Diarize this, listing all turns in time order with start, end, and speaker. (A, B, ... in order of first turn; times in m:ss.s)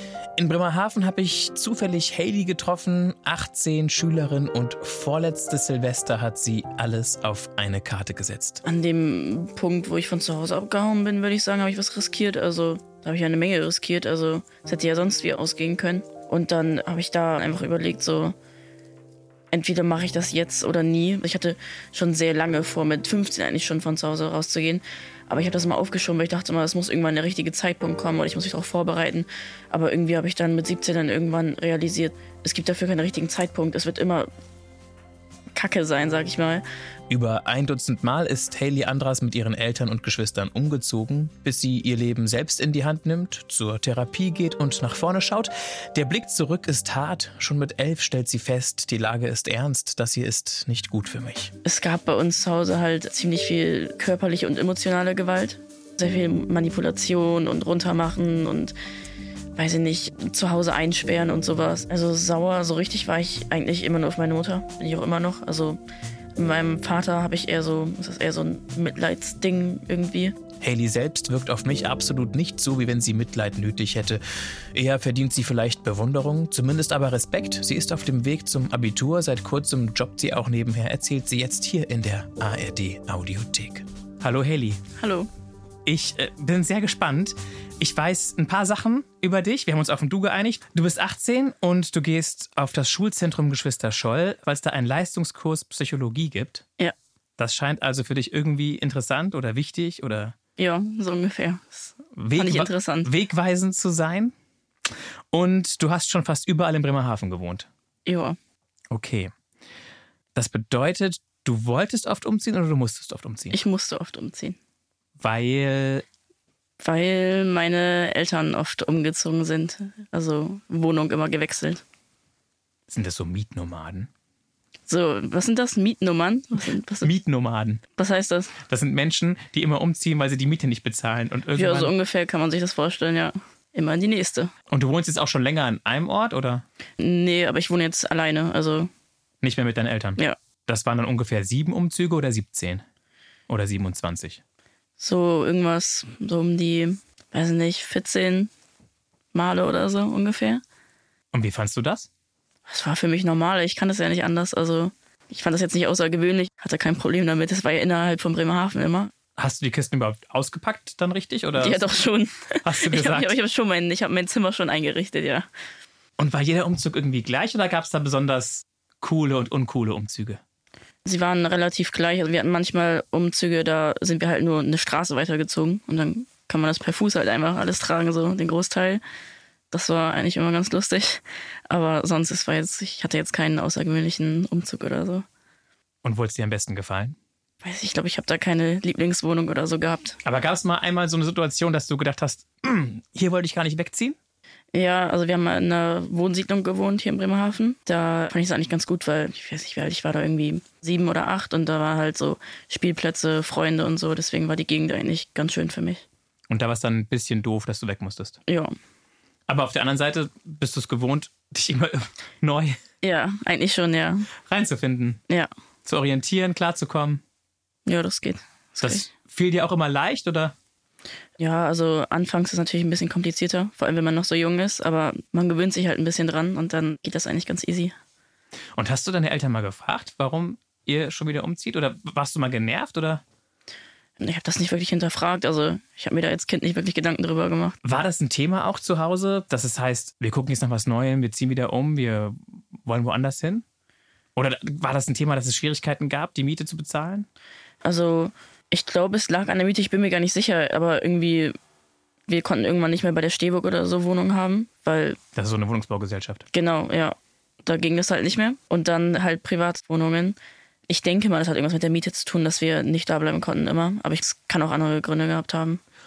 0:00.4-0:08.6 A
0:08.6-0:18.4 B
0:19.5-0:34.3 B
0:35.5-0:36.6 B
0:37.1-0:51.5 A
0:51.6-0:58.7 B
0:59.6-1:05.8 B
1:06.4-1:10.4 B
1:10.6-1:14.2 A
1:14.7-1:24.8 A
1:25.0-1:25.3 B
1:25.9-1:36.6 A
1:37.4-1:40.4 A
1:40.6-1:43.1 B
1:42.2-1:44.3 A
1:45.3-1:47.7 A
1:48.1-1:48.4 B
1:48.9-1:49.3 A
1:50.4-1:53.6 A
1:53.5-1:54.6 B
1:55.2-1:56.0 A
1:56.8-2:01.8 B
2:02.9-2:04.1 A
2:04.9-2:07.1 B
2:07.0-2:07.8 A
2:08.0-2:08.5 B
2:08.6-2:11.9 A
2:11.5-2:14.5 B
2:14.7-2:16.6 A
2:17.0-2:18.9 B
2:19.4-2:22.8 A
2:23.5-2:24.4 A
2:25.0-2:28.5 B
2:29.3-2:30.6 B
2:31.3-2:32.1 A
2:32.7-2:39.1 B
2:39.4-2:41.8 A
2:41.6-2:45.5 B
2:42.6-2:43.4 A
2:46.2-2:50.4 A
2:51.0-2:59.0 B
2:59.7-3:05.2 B
3:06.0-3:07.2 A
3:07.6-3:10.2 B
3:10.2-3:14.2 A
3:14.7-3:26.0 B
3:26.5-3:28.4 A
3:28.5-3:28.7 B
3:29.5-3:32.8 A
3:33.0-3:34.3 B
3:34.4-3:35.2 A
3:35.8-3:37.2 A
3:37.9-3:39.1 B
3:38.8-3:40.6 A
3:41.4-3:47.9 B
3:48.8-3:53.2 A
3:54.2-3:57.8 B
3:57.8-4:03.6 A
4:04.4-4:07.3 A
4:07.8-4:11.5 B
4:12.3-4:15.2 B
4:15.4-4:16.4 A
4:16.5-4:20.4 B
4:20.9-4:25.8 B